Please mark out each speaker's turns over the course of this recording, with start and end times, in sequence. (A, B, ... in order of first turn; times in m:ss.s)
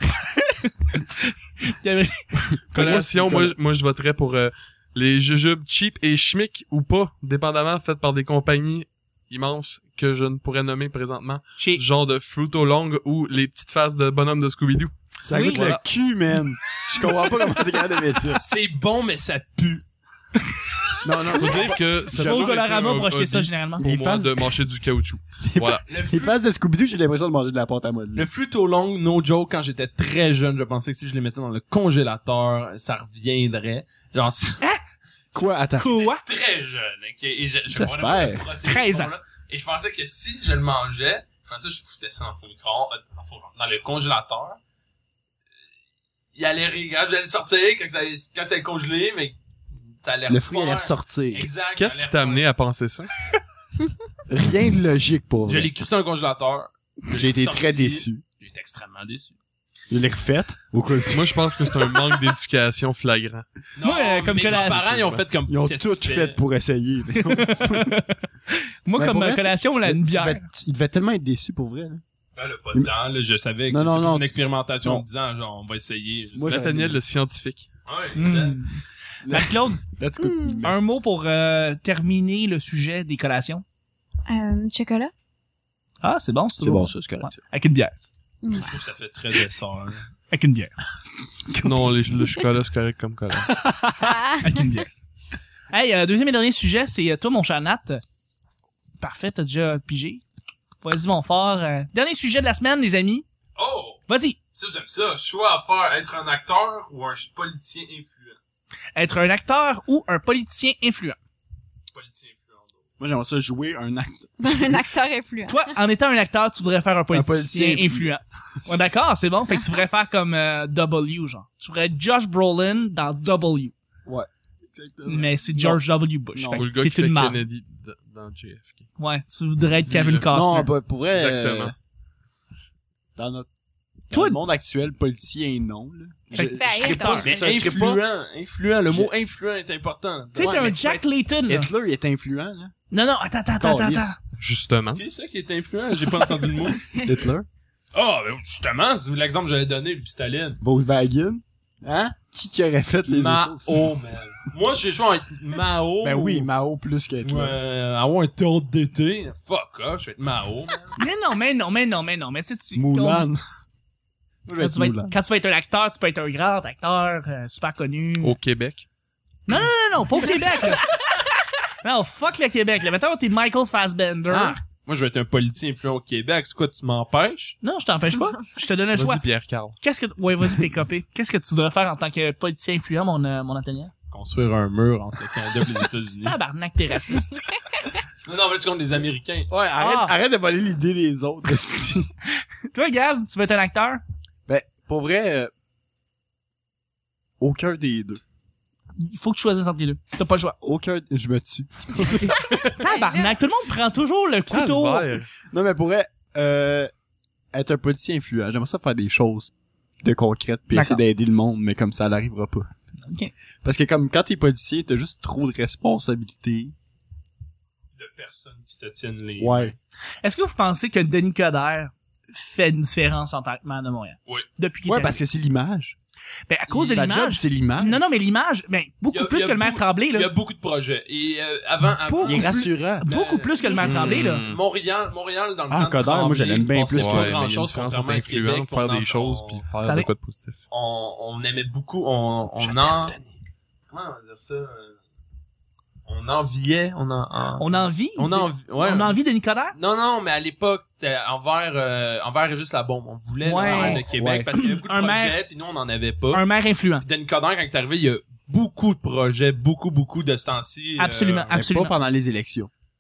0:00.2-0:02.9 A
0:02.7-0:03.5 B
0:02.7-0:15.8 C
0:15.2-0:18.4 B
0:15.3-0:15.7 A
0:18.3-0:19.8 D
0:21.0-0:22.5 B
0:21.3-0:25.9 C
0:22.1-0:23.9 A
0:23.8-0:24.6 B
0:25.4-0:28.3 B
0:25.9-0:26.4 D
0:28.2-0:34.6 D
0:35.3-0:36.0 B
0:35.7-0:36.2 A
0:36.0-0:44.6 D
0:37.7-0:38.5 B
0:38.6-0:39.2 A
0:46.4-0:49.4 D
0:50.0-0:52.5 D
0:50.3-0:51.5 B
0:51.8-0:53.1 C
0:54.3-0:55.7 B
0:55.5-0:59.4 D
0:57.1-0:58.2 B
0:59.9-1:01.7 B
1:01.1-1:03.5 C
1:03.8-1:06.4 D
1:03.8-1:04.9 A
1:04.5-1:05.2 C
1:05.5-1:08.0 B
1:07.1-1:10.5 A
1:09.0-1:12.0 B
1:12.4-1:16.7 D
1:13.7-1:15.1 B
1:16.4-1:17.0 B
1:16.4-1:17.7 C
1:17.9-1:18.6 D
1:18.2-1:19.8 A
1:19.2-1:20.8 B
1:20.2-1:20.6 E
1:20.6-1:23.6 A
1:24.3-1:25.1 E
1:26.0-1:28.0 A
1:26.6-1:27.4 B
1:28.4-1:28.7 E
1:28.5-1:30.1 D
1:30.3-1:30.8 A
1:31.6-1:33.6 C
1:33.5-1:34.1 B
1:34.0-1:34.8 E
1:34.4-1:34.9 A
1:35.7-1:38.0 A
1:39.0-1:40.2 A
1:40.8-1:43.2 A
1:43.6-1:44.0 D
1:44.1-1:44.4 A
1:44.5-1:48.4 D
1:49.0-1:51.2 A
1:51.9-1:52.8 D
1:53.0-1:54.8 B
1:54.4-1:55.7 E
1:55.5-2:03.7 A
1:57.1-1:58.1 B
2:04.1-2:05.8 B
2:05.1-2:07.4 A
2:06.4-2:06.7 B
2:06.6-2:08.9 C
2:09.0-2:10.7 A
2:09.9-2:10.3 C
2:10.3-2:11.7 B
2:11.1-2:11.7 C
2:13.2-2:13.5 B
2:14.1-2:18.0 B
2:14.1-2:14.4 A
2:16.3-2:17.3 A
2:16.3-2:17.3 E
2:17.2-2:21.0 D
2:20.4-2:21.7 A
2:20.4-2:20.7 B
2:21.5-2:22.7 B
2:22.9-2:24.2 A
2:23.6-2:24.2 B
2:24.4-2:25.0 C
2:25.0-2:27.0 D
2:26.9-2:27.5 B
2:27.9-2:30.6 D
2:30.6-2:33.9 B
2:33.1-2:36.5 D
2:36.0-2:37.6 B
2:37.2-2:41.0 D
2:41.0-2:43.3 A
2:42.8-2:43.4 B
2:44.5-2:45.2 B
2:44.6-2:48.4 A
2:48.2-2:48.9 C
2:49.5-2:51.2 A
2:51.8-2:54.6 A
2:54.3-2:57.6 D
2:57.6-2:59.3 A
2:58.9-2:59.8 C
2:59.8-3:03.9 A
3:04.1-3:06.4 D
3:06.2-3:07.5 A
3:08.2-3:09.5 D
3:09.5-3:12.1 B
3:09.8-3:10.2 A
3:12.7-3:14.0 A
3:14.5-3:15.5 B
3:17.4-3:18.2 B
3:19.0-3:20.6 A
3:20.6-3:22.5 B
3:22.0-3:25.1 A
3:22.8-3:23.4 E
3:24.5-3:25.3 C
3:25.4-3:26.9 B
3:27.5-3:32.7 B
3:30.7-3:31.0 A
3:33.0-3:33.3 A
3:33.6-3:36.7 B
3:38.0-3:39.8 D
3:39.4-3:39.8 B
3:40.2-3:45.2 A
3:44.9-3:46.0 B
3:46.5-3:50.3 A
3:46.7-3:48.0 B
3:49.1-3:59.6 D
3:52.0-3:54.4 A
3:52.2-3:53.1 B
3:53.8-3:54.6 C
3:55.7-3:57.4 B
3:57.0-4:00.6 C
3:59.8-4:00.1 A
4:00.7-4:03.2 D
4:03.9-4:05.0 D
4:06.1-4:09.2 D
4:07.6-4:09.8 A
4:09.8-4:16.5 D
4:13.4-4:15.4 A
4:13.6-4:14.5 B
4:16.3-4:17.0 A
4:17.0-4:21.6 D
4:21.0-4:21.9 A
4:21.5-4:22.7 B